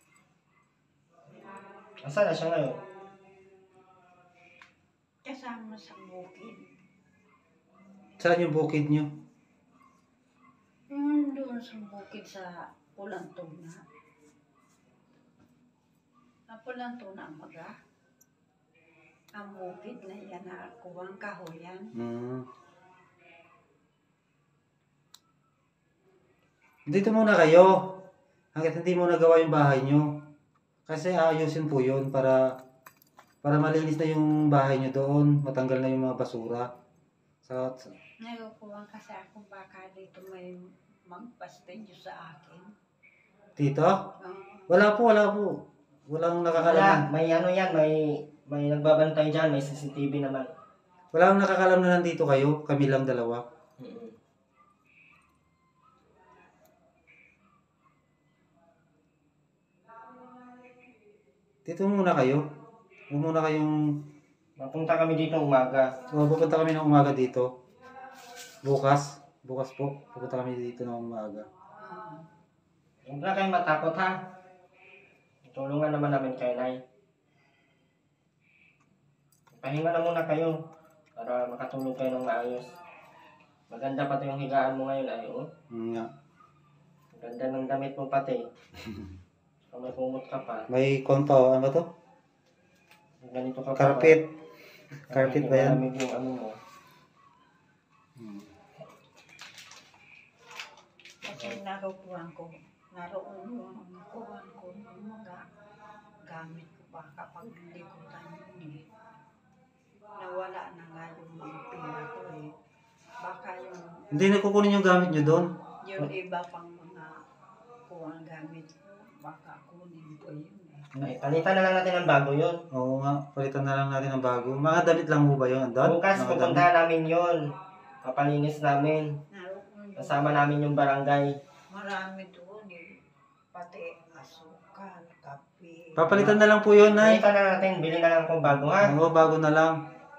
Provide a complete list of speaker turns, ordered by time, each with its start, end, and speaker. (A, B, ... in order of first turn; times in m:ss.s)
0:02.0-0:02.8 A
0:05.2-0:06.7 B
0:08.2-0:09.1 C
0:10.9-0:13.8 B
0:16.5-0:17.7 B
0:19.4-0:21.9 B
0:21.9-0:22.5 C
0:26.9-0:30.3 C
0:30.9-0:32.6 C
0:33.4-0:36.7 C
0:37.4-0:37.9 C
0:38.2-0:42.7 B
0:43.6-0:44.1 C
0:44.2-0:44.7 B
0:44.7-0:47.1 C
0:46.6-0:50.5 A
0:51.1-0:53.4 C
0:53.8-0:54.1 A
1:01.7-1:02.4 C
1:03.1-1:03.8 C
1:04.6-1:05.9 A
1:06.1-1:07.5 C
1:08.6-1:11.5 C
1:11.8-1:12.3 B
1:13.0-1:14.1 A
1:15.5-1:16.8 A
1:19.6-1:20.6 A
1:21.2-1:22.7 A
1:23.7-1:25.5 A
1:25.7-1:26.1 C
1:27.1-1:28.4 A
1:29.7-1:30.7 A
1:30.7-1:31.9 C
1:33.2-1:34.2 A
1:33.8-1:34.2 C
1:35.1-1:35.8 C
1:35.1-1:36.6 A
1:38.2-1:38.5 C
1:41.2-1:45.4 B
1:46.2-1:48.8 B
1:50.2-1:52.5 B
1:53.2-1:54.1 B
1:54.1-1:55.5 C
1:55.8-1:57.2 B
1:57.9-2:00.9 B
2:01.0-2:02.6 A
2:02.7-2:06.7 C
2:05.8-2:07.4 A
2:08.0-2:09.2 A
2:09.3-2:10.4 B
2:10.0-2:11.4 A
2:11.7-2:13.0 B
2:13.5-2:16.0 B
2:16.0-2:17.2 C
2:16.1-2:19.0 A
2:18.8-2:19.8 C